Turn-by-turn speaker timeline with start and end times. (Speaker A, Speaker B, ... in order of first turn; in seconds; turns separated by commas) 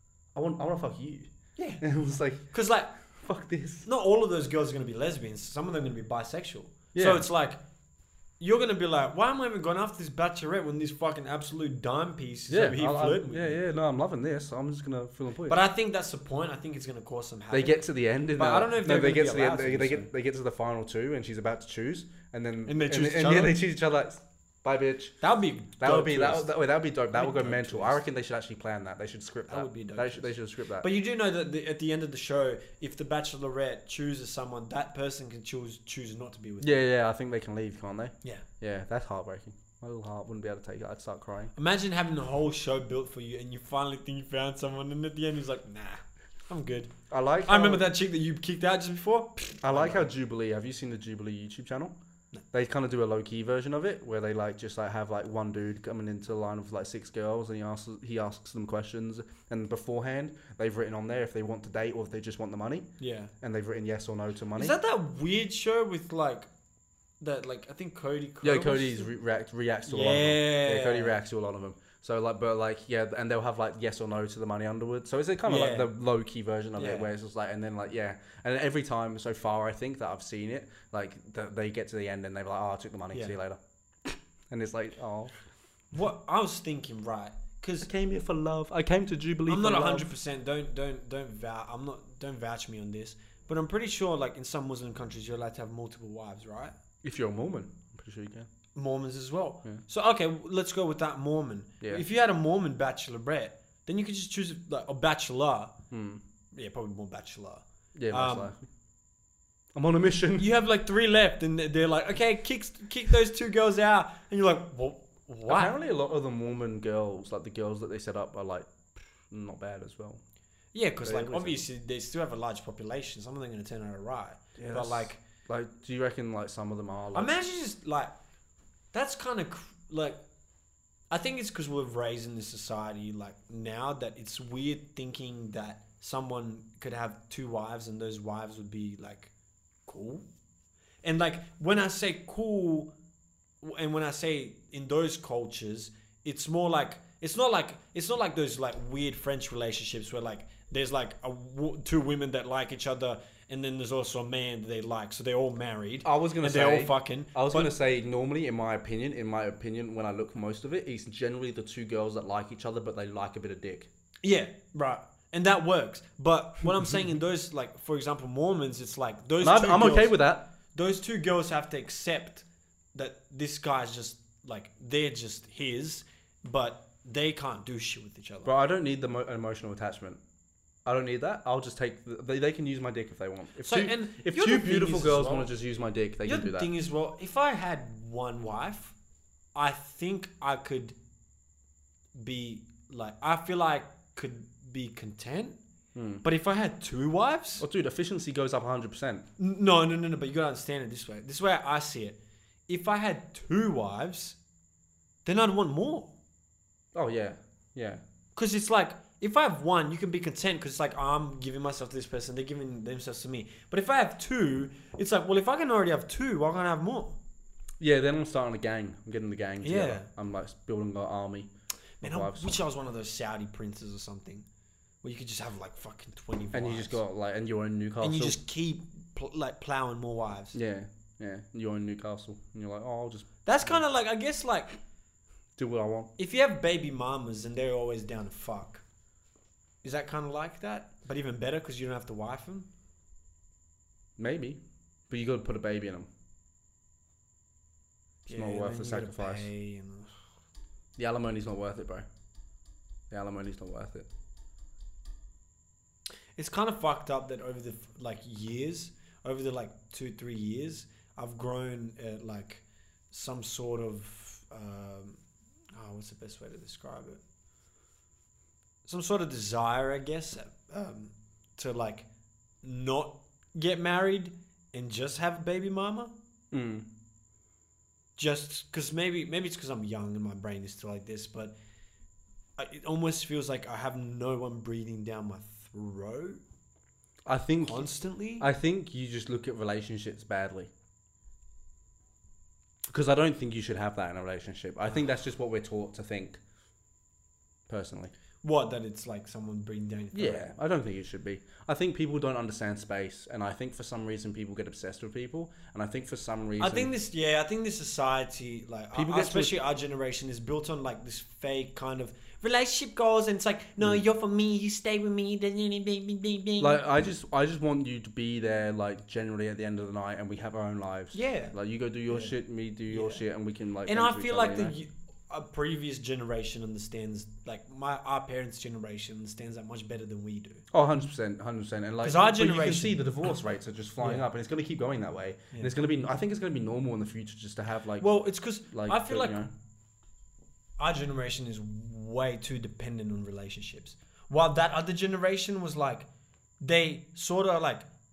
Speaker A: 0.3-2.5, Speaker B: 1.6-1.8, Speaker B: 2.5-2.9, Speaker A: 3.1-3.9, Speaker B: 3.9-7.6, Speaker A: 6.9-7.2, Speaker B: 8.4-13.6, Speaker A: 12.5-15.6, Speaker B: 15.5-17.8, Speaker A: 17.5-25.1, Speaker B: 18.4-20.1, Speaker B: 22.6-23.6, Speaker B: 25.2-26.5, Speaker A: 25.8-30.9, Speaker B: 27.1-28.0, Speaker B: 29.5-36.7, Speaker A: 36.6-41.5, Speaker B: 41.5-46.9, Speaker A: 47.1-47.8, Speaker B: 47.4-50.1, Speaker A: 49.6-51.9, Speaker A: 52.5-62.9, Speaker B: 63.0-63.3, Speaker A: 63.4-64.8, Speaker B: 64.5-66.5, Speaker B: 67.2-69.1, Speaker A: 68.4-85.3, Speaker B: 69.9-71.2, Speaker B: 75.5-75.9, Speaker B: 76.8-77.1, Speaker B: 85.9-87.9, Speaker A: 87.8-90.1, Speaker B: 89.5-96.7, Speaker A: 97.0-98.5, Speaker B: 98.7-105.7, Speaker A: 105.9-106.2, Speaker B: 106.5-108.5, Speaker A: 108.0-108.7, Speaker A: 109.7-110.5, Speaker B: 110.4-115.7, Speaker A: 115.5-118.7, Speaker A: 119.3-120.2, Speaker B: 120.7-125.2, Speaker A: 121.0-121.6, Speaker A: 124.6-127.4, Speaker B: 127.1-128.1, Speaker B: 128.9-130.2, Speaker B: 131.1-139.3, Speaker B: 139.8-140.2, Speaker B: 141.0-142.9, Speaker B: 143.6-157.7, Speaker A: 156.0-163.9, Speaker B: 164.2-170.2, Speaker A: 169.4-170.5, Speaker B: 170.7-178.5, Speaker A: 178.4-180.2, Speaker A: 180.8-186.7, Speaker B: 183.6-185.5, Speaker B: 186.2-188.9, Speaker B: 189.5-190.9, Speaker B: 192.1-195.6, Speaker A: 195.9-196.2, Speaker B: 196.2-197.6, Speaker A: 197.6-199.3, Speaker B: 199.4-204.4, Speaker B: 205.2-206.1, Speaker A: 206.9-208.0, Speaker B: 208.3-217.2, Speaker A: 217.8-221.5, Speaker B: 219.6-220.1, Speaker A: 222.0-222.6, Speaker B: 222.0-224.4, Speaker B: 225.0-227.0, Speaker A: 226.5-228.4, Speaker B: 228.0-230.6, Speaker A: 230.5-233.8, Speaker B: 233.4-234.8, Speaker A: 235.6-236.1, Speaker B: 236.2-238.8, Speaker B: 239.8-242.7, Speaker A: 244.2-246.1, Speaker B: 248.3-250.1, Speaker A: 248.3-249.5, Speaker A: 251.0-252.1, Speaker A: 253.1-254.1, Speaker B: 256.4-265.2, Speaker B: 265.7-267.2, Speaker B: 268.9-272.1, Speaker B: 272.6-276.1, Speaker A: 276.5-276.9, Speaker B: 278.2-281.5, Speaker B: 282.6-286.4, Speaker A: 287.2-290.7, Speaker B: 287.6-288.5, Speaker A: 292.9-296.4, Speaker A: 297.7-298.1, Speaker B: 298.4-300.5, Speaker A: 300.1-306.9, Speaker B: 306.6-316.8, Speaker A: 308.9-309.6, Speaker A: 316.6-324.7, Speaker B: 321.1-321.5, Speaker B: 322.1-322.3, Speaker B: 322.9-323.2, Speaker B: 323.9-330.6, Speaker A: 330.7-338.1, Speaker B: 332.0-333.0, Speaker B: 338.0-339.4, Speaker A: 338.7-339.5, Speaker B: 340.8-346.1, Speaker B: 346.6-347.9